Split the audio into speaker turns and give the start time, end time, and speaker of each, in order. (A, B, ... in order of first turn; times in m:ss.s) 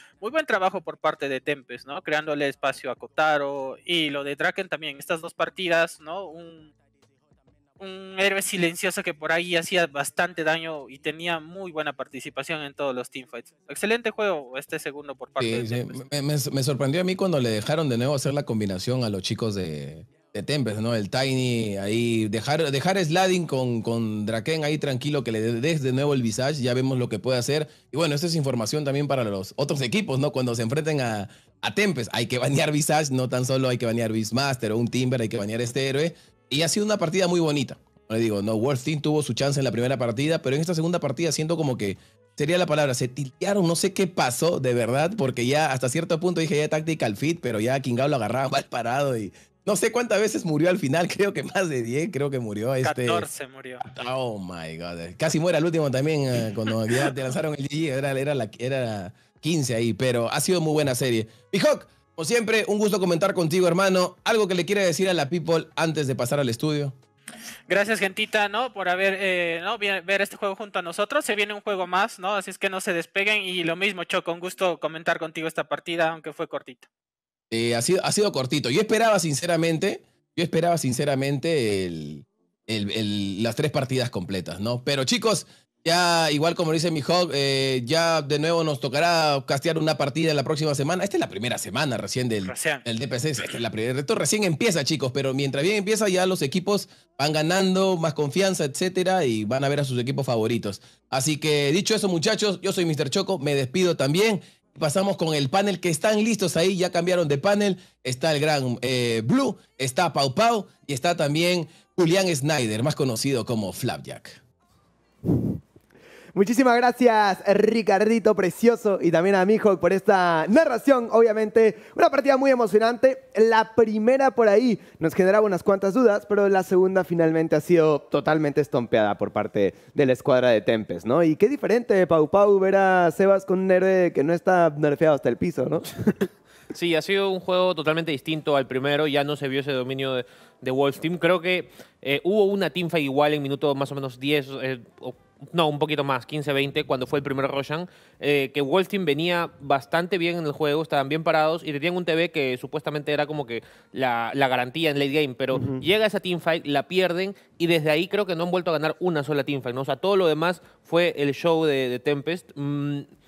0:00.2-0:06.7 A
0:07.8-0:16.0 A
0:15.4-0:53.3 B
0:52.8-0:53.8 A
0:53.8-1:07.0 B
1:07.7-1:16.9 A
1:17.5-1:54.4 B
1:32.4-1:32.8 A
1:55.3-1:55.5 C
1:56.4-2:16.3 C
2:16.7-2:43.1 D
2:35.5-2:35.8 C